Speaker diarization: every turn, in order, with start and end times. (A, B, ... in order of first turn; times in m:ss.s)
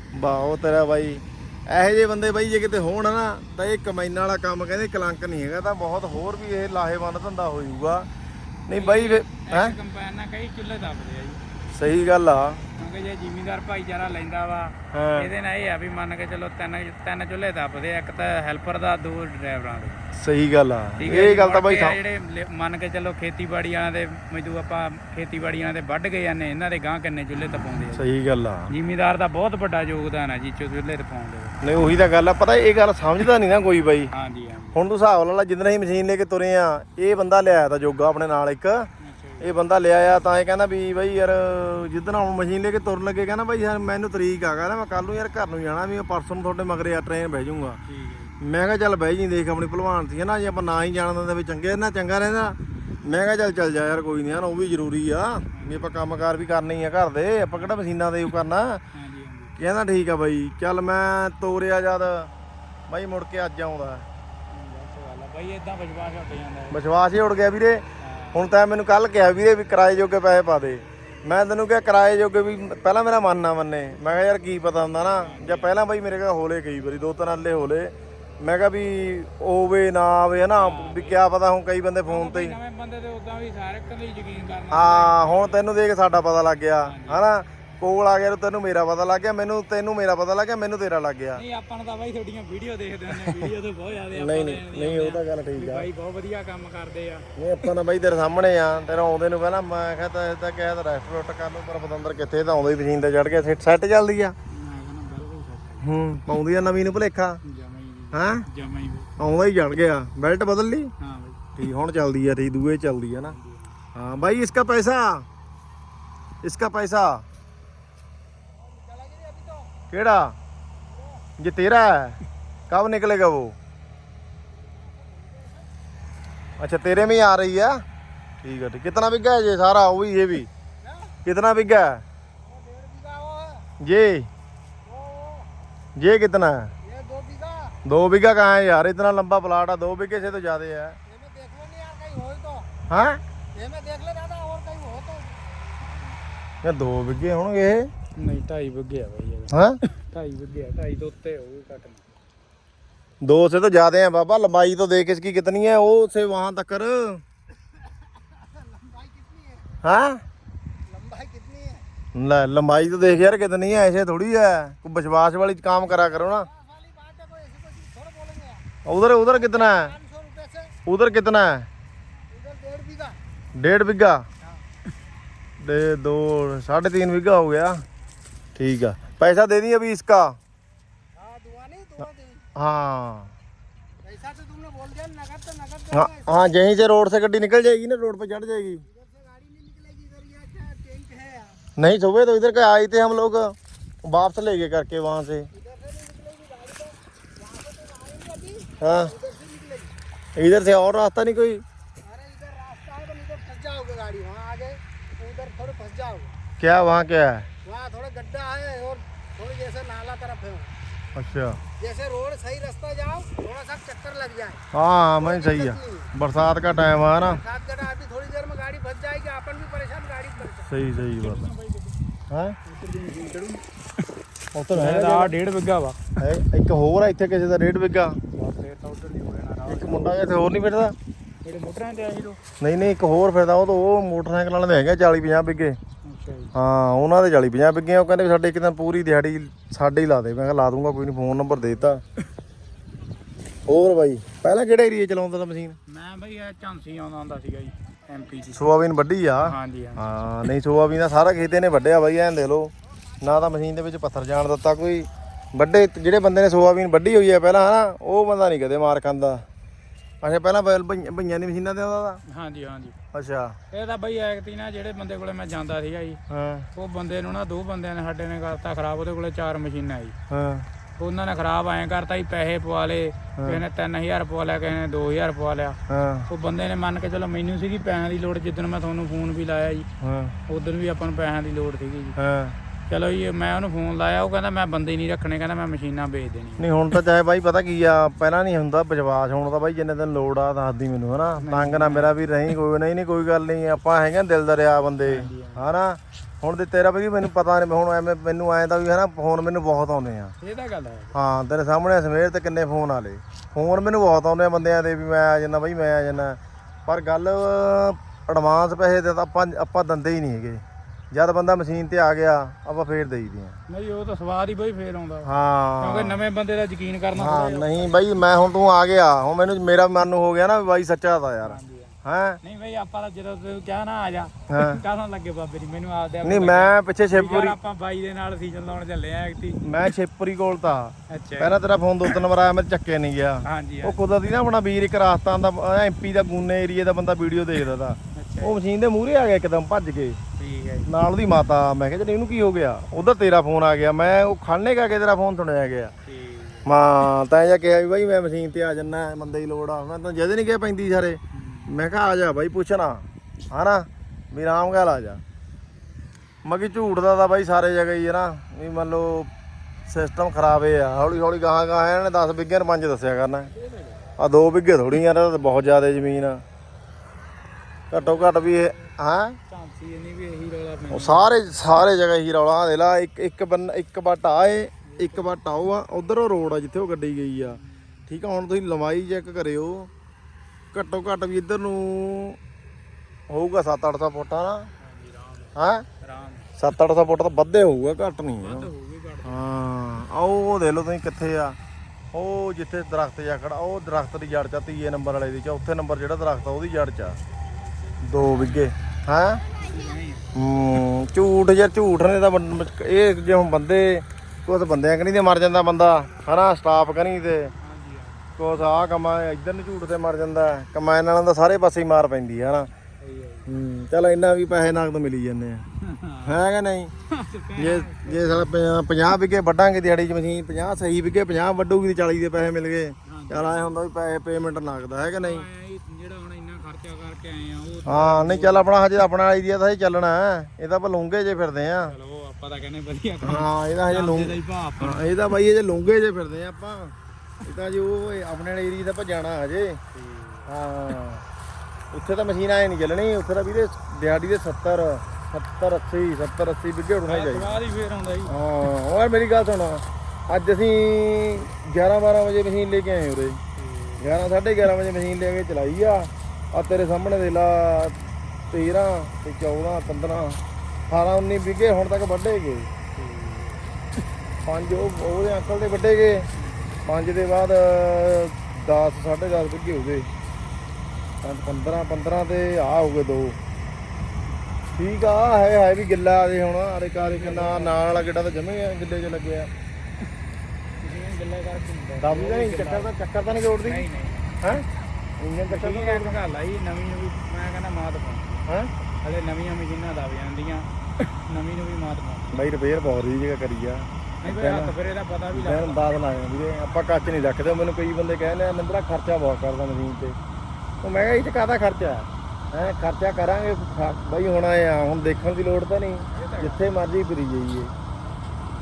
0:00.1-0:08.1 A
0:08.7-0:09.8 A
0:08.7-0:11.4 B
0:11.7-0:12.7 A
0:12.8-0:20.0 B
0:14.9-0:15.3 A
0:20.2-0:22.0 A
0:21.0-0:28.1 B
0:27.9-0:28.7 A
0:28.7-0:31.6 B
0:31.6-0:34.1 A
0:34.1-0:34.8 B
0:34.7-0:38.9 A
0:39.0-0:39.5 B
0:39.4-0:47.8 A
0:47.9-0:48.4 B
0:48.4-0:58.8 A
0:55.5-0:56.0 B
0:58.9-0:59.5 B
0:59.6-1:02.3 A
1:02.9-1:04.1 A
1:04.5-1:06.8 B
1:06.7-1:22.6 A
1:08.0-1:08.5 B
1:15.1-1:15.8 B
1:20.5-1:21.2 B
1:22.1-1:25.6 B
1:24.7-1:31.4 A
1:26.8-1:27.2 B
1:31.4-1:37.3 B
1:34.2-1:35.9 A
1:37.4-1:44.4 A
1:44.5-1:45.9 B
1:45.8-1:47.4 A
1:47.4-1:49.1 B
1:48.1-1:48.4 A
1:49.2-1:50.9 A
1:51.0-1:51.4 B
1:51.6-1:53.4 A
1:53.2-1:53.8 B
1:54.0-1:55.3 A
1:56.4-1:57.2 A
1:58.9-1:59.7 C
1:59.9-2:00.4 A
2:01.4-2:02.2 A
2:02.7-2:03.6 A
2:04.8-2:05.6 C
2:06.6-2:07.8 A
2:08.4-2:10.5 A
2:11.2-2:12.0 A
2:12.5-2:13.6 C
2:13.8-2:14.3 A
2:14.9-2:15.5 C
2:16.0-2:16.7 A
2:16.9-2:17.8 C
2:17.8-2:21.0 A
2:21.1-2:22.7 C
2:22.9-2:23.2 A
2:23.6-2:25.4 C
2:26.6-2:27.9 A
2:28.2-2:32.0 B
2:29.5-2:29.8 A
2:33.2-2:37.2 A
2:38.7-2:39.6 C
2:39.8-2:40.2 A
2:40.9-2:41.8 C
2:42.1-2:46.5 A
2:46.7-2:48.6 C
2:48.8-2:50.0 A
2:50.0-2:50.7 C
2:50.8-2:51.7 A
2:52.3-2:53.2 C
2:53.6-2:54.2 A
2:55.6-2:57.8 A
2:58.6-3:00.4 A
3:01.2-3:02.4 C
3:02.6-3:03.3 A
3:04.0-3:06.4 C
3:05.9-3:08.8 A
3:09.0-3:11.6 C
3:11.8-3:15.5 A
3:15.6-3:19.9 C
3:18.8-3:19.2 A
3:20.4-3:21.6 A
3:22.0-3:26.3 C
3:26.6-3:27.5 A
3:27.6-3:30.7 C
3:31.2-3:31.6 A
3:31.8-3:34.6 C
3:34.7-3:37.4 A
3:35.2-3:36.1 C
3:37.3-3:40.6 C
3:40.6-3:41.4 A
3:41.1-3:42.0 B
3:42.3-3:42.6 A
3:42.7-3:43.6 C
3:44.5-3:45.4 A
3:44.8-3:46.2 B
3:46.2-3:48.2 A
3:48.3-3:50.2 B
3:49.7-3:51.0 A
3:51.4-3:52.4 B
3:52.6-3:55.8 A
3:56.0-3:56.5 B
3:56.5-4:02.0 A
4:03.7-4:05.8 A
4:05.9-4:08.7 B
4:08.6-4:19.4 A
4:09.4-4:10.0 B
4:20.2-4:22.2 A
4:22.3-4:23.0 B
4:23.1-4:23.6 A
4:23.7-4:26.2 B
4:26.3-4:26.7 A
4:26.8-4:30.2 B
4:30.3-4:30.7 A
4:31.0-4:35.8 B
4:33.4-4:33.6 A
4:35.9-4:36.3 A
4:36.3-4:39.9 B
4:40.0-4:40.4 A
4:40.5-4:42.2 B
4:42.2-4:42.6 A
4:42.9-4:46.7 B
4:46.6-5:00.3 A
4:51.4-4:52.1 B
4:55.0-4:55.6 B
5:00.4-5:01.2 B
5:01.1-5:13.6 A
5:13.7-5:15.3 B
5:15.2-5:16.2 A
5:15.8-5:18.0 B
5:17.2-5:22.4 A
5:21.4-5:29.6 B
5:24.5-5:24.8 A
5:26.2-5:27.6 A
5:29.6-5:40.2 A
5:31.1-5:32.2 B
5:33.5-5:34.0 B
5:38.2-5:38.6 B
5:40.4-5:40.9 B
5:40.9-5:45.9 A
5:46.1-5:46.7 B
5:46.6-5:55.2 A
5:51.3-5:51.7 B
5:56.4-5:59.3 A
5:59.9-6:03.5 A
6:03.6-6:03.9 B
6:04.2-6:06.4 A
6:07.9-6:09.4 A
6:08.0-6:08.8 B
6:09.5-6:11.3 B
6:10.9-6:17.6 A
6:14.9-6:15.3 B
6:18.1-6:19.9 A
6:20.7-6:22.4 A
6:23.3-6:24.7 A
6:24.8-6:26.5 B
6:25.6-6:25.9 A
6:26.6-6:28.7 A
6:28.4-6:29.4 B
6:29.2-6:31.6 A
6:32.1-6:37.2 A
6:38.0-6:39.4 A
6:38.2-6:38.7 B
6:39.6-6:40.3 B
6:40.4-6:47.5 A
6:47.6-6:48.2 B
6:48.4-6:52.7 A
6:53.0-6:53.5 B
6:53.5-6:55.6 A
6:55.8-6:56.4 B
6:56.2-6:56.9 A
6:57.1-6:58.5 B
6:57.6-7:05.5 A
7:03.1-7:03.7 B
7:05.2-7:08.7 B
7:07.9-7:11.9 A
7:11.8-7:15.3 B
7:13.2-7:16.9 A
7:17.4-7:19.8 A
7:19.9-7:20.5 B
7:20.5-7:21.2 A
7:21.9-7:27.6 A
7:27.1-7:28.3 B
7:28.3-7:33.4 A
7:33.6-7:34.0 B
7:34.0-7:42.7 A
7:43.0-7:43.6 B
7:44.4-7:46.3 A
7:46.9-7:50.1 A
7:51.2-7:53.4 A
7:54.8-7:59.5 A
7:57.0-7:57.8 B
8:00.8-8:02.9 B
8:02.0-8:03.9 A
8:03.6-8:04.4 B
8:05.2-8:06.2 A
8:05.5-8:08.5 B
8:09.0-8:12.4 B
8:12.3-8:14.7 A
8:14.2-8:16.0 B
8:15.3-8:20.2 A
8:20.8-8:27.7 A
8:26.1-8:26.7 B